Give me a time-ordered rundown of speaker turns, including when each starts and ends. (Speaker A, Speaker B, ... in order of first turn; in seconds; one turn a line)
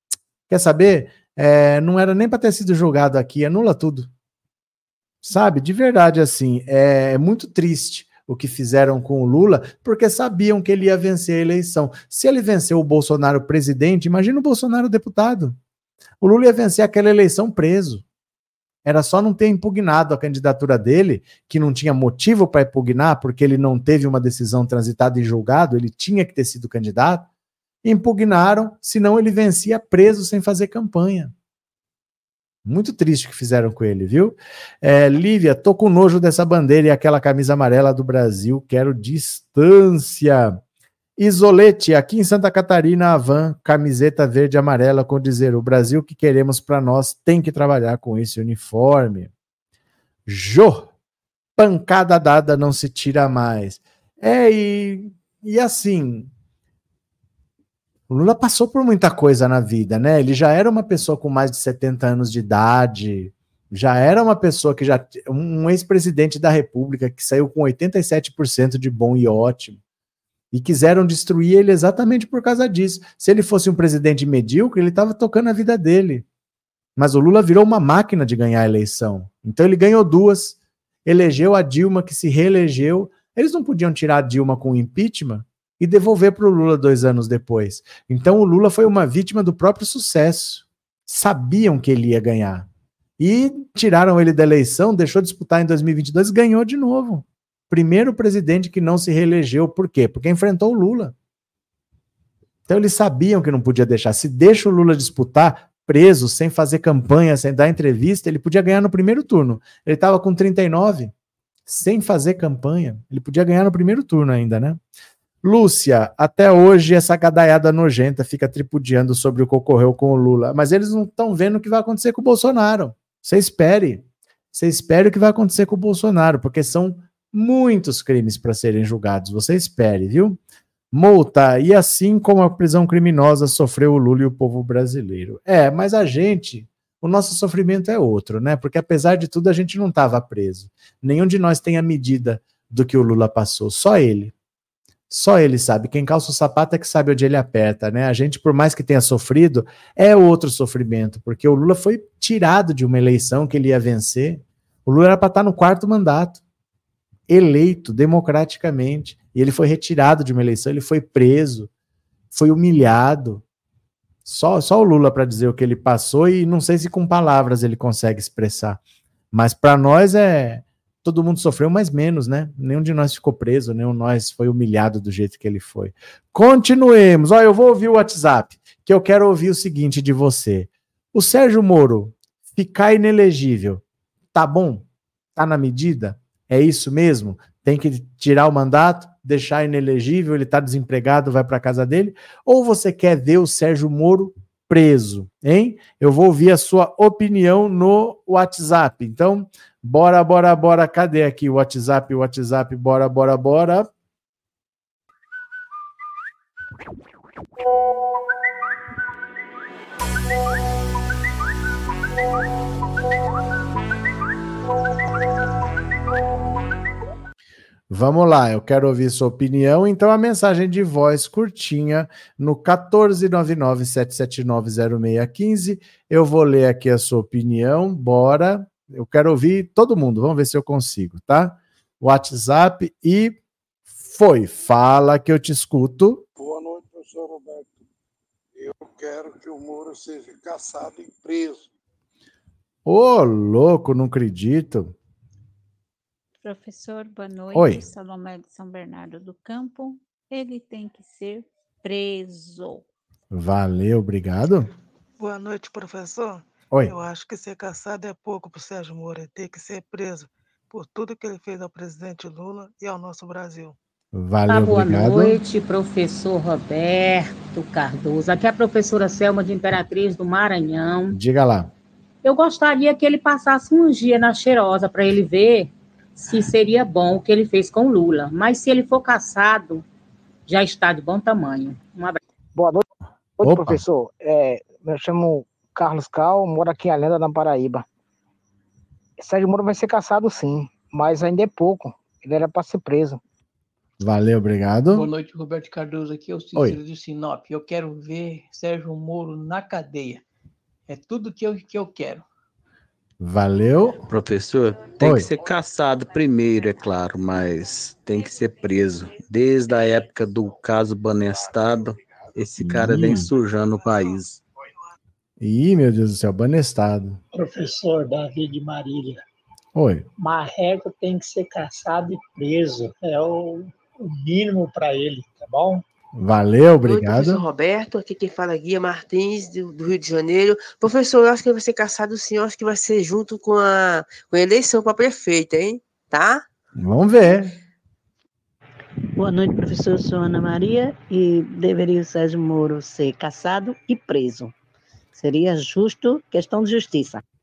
Speaker A: 0.5-4.1
Speaker A: 5.2-15.6
Speaker A: 16.2-18.0
Speaker A: 18.9-27.3
Speaker A: 27.8-31.3
Speaker A: 32.6-40.6
Speaker A: 41.2-49.3
Speaker A: 50.3-50.9
Speaker A: 51.6-56.3
Speaker A: 58.1-69.8
Speaker A: 70.5-76.2
Speaker A: 77.0-92.7
Speaker A: 93.2-101.1
Speaker A: 102.7-111.1
Speaker A: 111.7-114.8
Speaker A: 115.4-130.4
Speaker A: 130.9-144.3
Speaker A: 145.1-156.4
Speaker A: 157.3-161.7
Speaker A: 162.3-163.4
Speaker A: 164.2-168.8
Speaker A: 169.3-183.8
Speaker A: 184.3-184.8
Speaker A: 185.3-203.9
Speaker A: 217.9-233.4
Speaker A: 234.0-236.2
Speaker B: 236.4-237.8
Speaker B: 238.6-241.7
Speaker A: 242.9-244.9
Speaker C: 246.4-252.8
Speaker A: 247.5-247.8
Speaker A: 253.3-254.7
Speaker D: 255.2-263.8
Speaker A: 264.1-265.4
Speaker E: 264.5-271.1
Speaker A: 271.1-271.7
Speaker E: 272.2-279.9
Speaker E: 280.5-282.2
Speaker F: 282.6-282.8
Speaker F: 283.4-287.9
Speaker A: 283.4-283.8
Speaker F: 289.2-293.2
Speaker A: 294.0-295.1
Speaker G: 294.9-300.2
Speaker G: 300.9-302.2
Speaker A: 303.2-304.1
Speaker H: 304.1-314.4
Speaker A: 305.0-305.3
Speaker A: 312.6-313.3
Speaker A: 315.4-317.2
Speaker I: 317.3-319.2
Speaker A: 319.8-320.1
Speaker I: 320.2-325.8
Speaker A: 326.2-327.4
Speaker J: 326.8-336.4
Speaker A: 336.8-337.6
Speaker K: 339.2-344.5
Speaker K: 345.1-347.2